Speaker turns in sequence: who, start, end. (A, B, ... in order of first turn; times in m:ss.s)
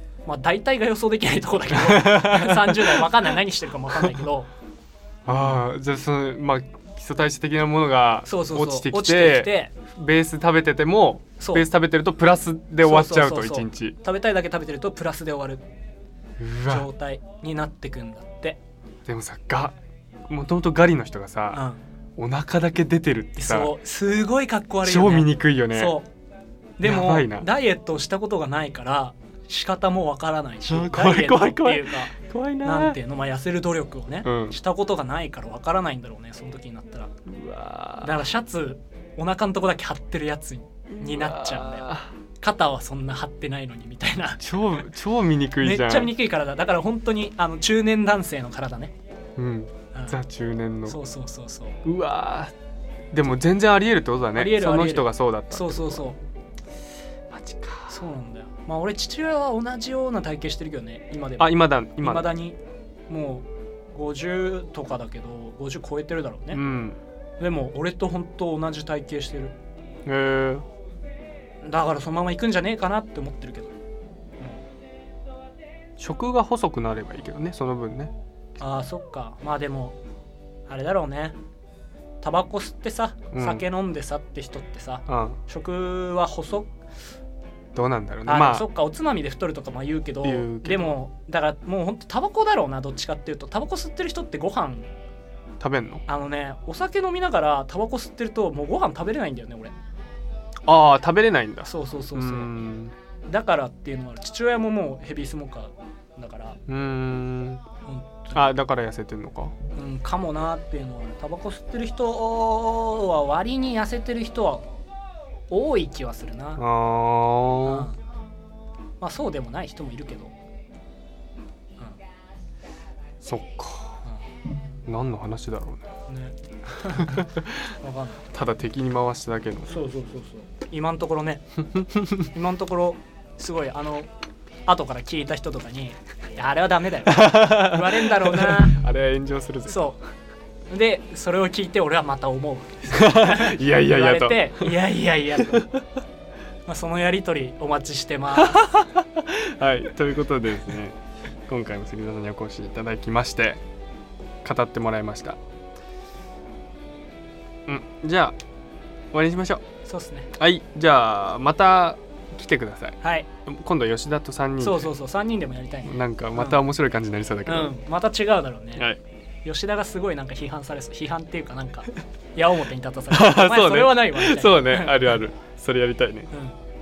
0:00.2-0:04.5 A
0:01.7-0:03.3 B
0:05.2-0:14.0 B
0:05.3-0:05.6 A
0:08.2-0:09.7 A
0:11.4-0:11.7 A
0:12.8-0:15.6 A
0:16.4-0:16.9 B
0:16.7-0:18.6 A
0:19.0-0:19.8 B
0:20.3-0:21.6 B
0:21.5-0:21.8 A
0:22.2-0:23.7 B
0:23.4-0:26.1 A
0:24.8-0:25.9 B
0:26.8-0:37.1 A
0:26.8-0:27.5 B
0:30.7-0:33.0 B
0:34.2-0:34.6 B
0:37.3-0:38.1 B
0:38.0-0:44.4 A
0:40.9-0:42.1 B
0:44.4-0:46.1 B
0:45.6-0:48.9 A
0:49.4-0:51.0 B
0:49.9-0:50.2 A
0:50.9-0:51.8 A
0:51.8-0:52.5 B
0:53.1-0:56.0 B
0:54.3-0:56.2 A
0:57.3-0:58.0 B
0:57.9-1:02.6 A
1:01.4-1:02.3 B
1:03.1-1:06.6 A
1:06.5-1:07.0 B
1:07.4-1:09.6 A
1:10.0-1:10.6 B
1:11.6-1:13.7 A
1:16.0-1:18.1 B
1:18.6-1:20.0 A
1:20.7-1:21.4 A
1:22.2-1:26.7 A
1:23.3-1:23.6 B
1:25.1-1:25.4 B
1:27.7-1:28.6 B
1:28.2-1:34.9 A
1:30.2-1:31.0 B
1:35.6-1:36.0 B
1:36.1-1:39.7 A
1:40.7-1:42.9 B
1:41.6-1:42.5 A
1:43.3-1:46.6 A
1:46.7-1:47.6 B
1:47.8-1:48.4 A
1:48.3-1:49.5 B
1:49.7-1:54.6 A
1:55.5-1:56.6 A
1:56.6-1:57.9 B
1:57.6-1:58.0 A
1:59.0-2:00.3 A
2:03.2-2:04.0 B
2:04.9-2:05.9 B
2:06.1-2:08.2 A
2:07.0-2:07.6 B
2:08.3-2:09.8 B
2:09.7-2:11.4 A
2:11.8-2:12.2 B
2:12.3-2:14.1 A
2:14.7-2:18.8 A
2:17.1-2:19.8 B
2:19.7-2:20.0 A
2:20.7-2:25.6 A
2:22.9-2:24.8 B
2:25.4-2:25.8 B
2:26.7-2:28.6 A
2:28.4-2:31.0 B
2:31.5-2:33.6 B
2:34.4-2:35.4 B
2:37.7-2:38.4 B
2:39.1-2:39.6 B
2:39.8-2:40.3 A
2:40.4-2:44.9 B
2:43.0-2:43.3 A
2:44.6-2:46.6 A
2:45.8-2:47.7 B
2:47.4-2:48.9 A
2:49.4-2:55.2 A
2:53.1-2:56.3 B
2:56.3-2:56.6 A